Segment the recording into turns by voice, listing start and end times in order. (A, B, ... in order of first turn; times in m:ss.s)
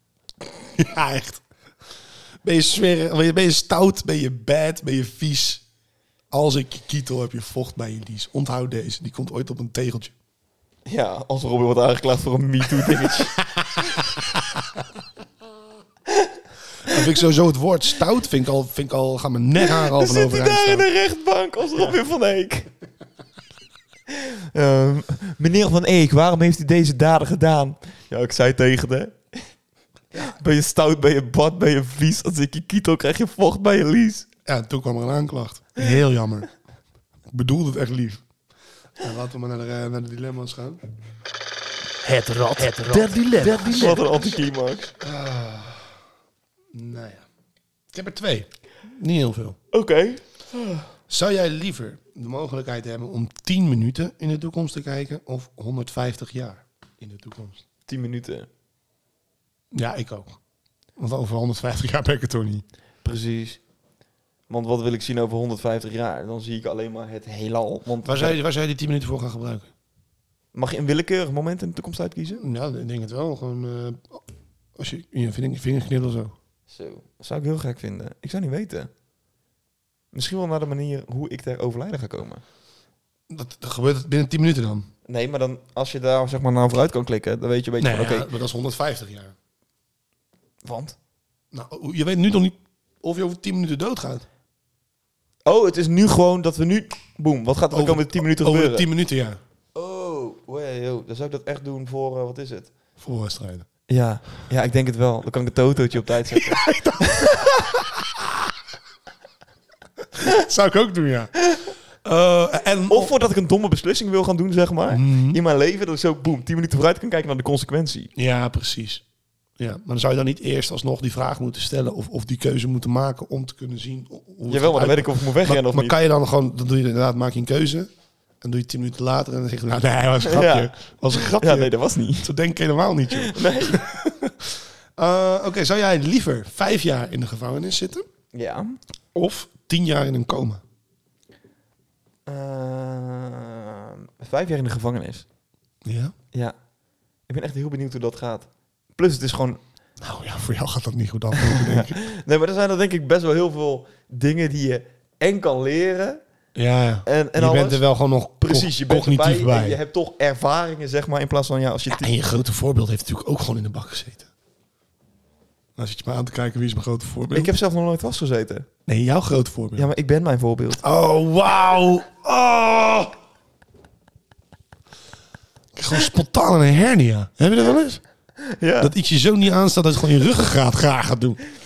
0:00.4-0:01.4 A
0:02.4-0:05.6 A
0:06.3-0:10.1 A
0:10.9-0:13.4 B
0:13.0-0:14.6 A
0:16.1-0:16.3 B
0:16.8-0:20.9 A
0:19.6-0:22.7 B
0:24.1-0:29.2 B
0:30.2-0:34.3 B
0:34.5-0:36.5 A
0:37.3-0:38.2 A
0:39.0-0:40.8 A
0:42.0-0:44.0 C
0:42.9-0:44.0 A
0:43.5-0:44.9 B
0:44.9-0:46.0 A
0:46.7-0:47.2 A
0:47.9-0:49.6 A
0:49.7-0:50.9 B
0:51.1-0:57.6 A
0:57.9-0:58.5 B
0:59.7-1:00.4 A
1:01.0-1:02.6 A
1:03.0-1:03.6 B
1:04.5-1:08.4 B
1:08.0-1:09.7 A
1:10.5-1:12.4 B
1:12.4-1:14.2 A
1:14.8-1:16.4 A
1:16.7-1:18.9 B
1:20.1-1:22.4 B
1:23.3-1:24.9 A
1:25.1-1:28.3 B
1:27.8-1:29.3 A
1:30.6-1:31.0 B
1:31.5-1:34.3 A
1:35.5-1:38.9 B
1:37.7-1:39.4 A
1:39.8-1:42.7 B
1:43.0-1:43.7 A
1:43.9-1:47.4 B
1:46.3-1:48.3 A
1:50.1-1:51.3 A
1:52.0-1:53.1 A
1:52.9-1:58.1 B
1:54.9-1:55.4 A
1:58.2-1:59.0 A
1:59.6-2:07.9 A
2:04.5-2:06.0 B
2:08.4-2:18.1 A
2:10.3-2:10.7 B
2:11.3-2:12.3 B
2:13.1-2:14.0 B
2:18.3-2:18.8 B
2:19.1-2:20.6 A
2:22.3-2:25.3 B
2:25.8-2:26.1 A
2:27.3-2:29.6 B
2:30.0-2:32.0 A
2:31.4-2:36.2 B
2:36.6-2:39.8 A
2:37.1-2:37.8 B
2:38.4-2:42.1 B
2:41.9-2:44.3 A
2:45.8-2:47.5 A
2:47.3-2:48.7 B
2:48.9-2:49.9 A
2:49.8-2:50.8 B
2:50.8-2:53.2 A
2:55.8-2:58.0 A
2:58.5-2:58.9 B
2:58.8-3:01.4 A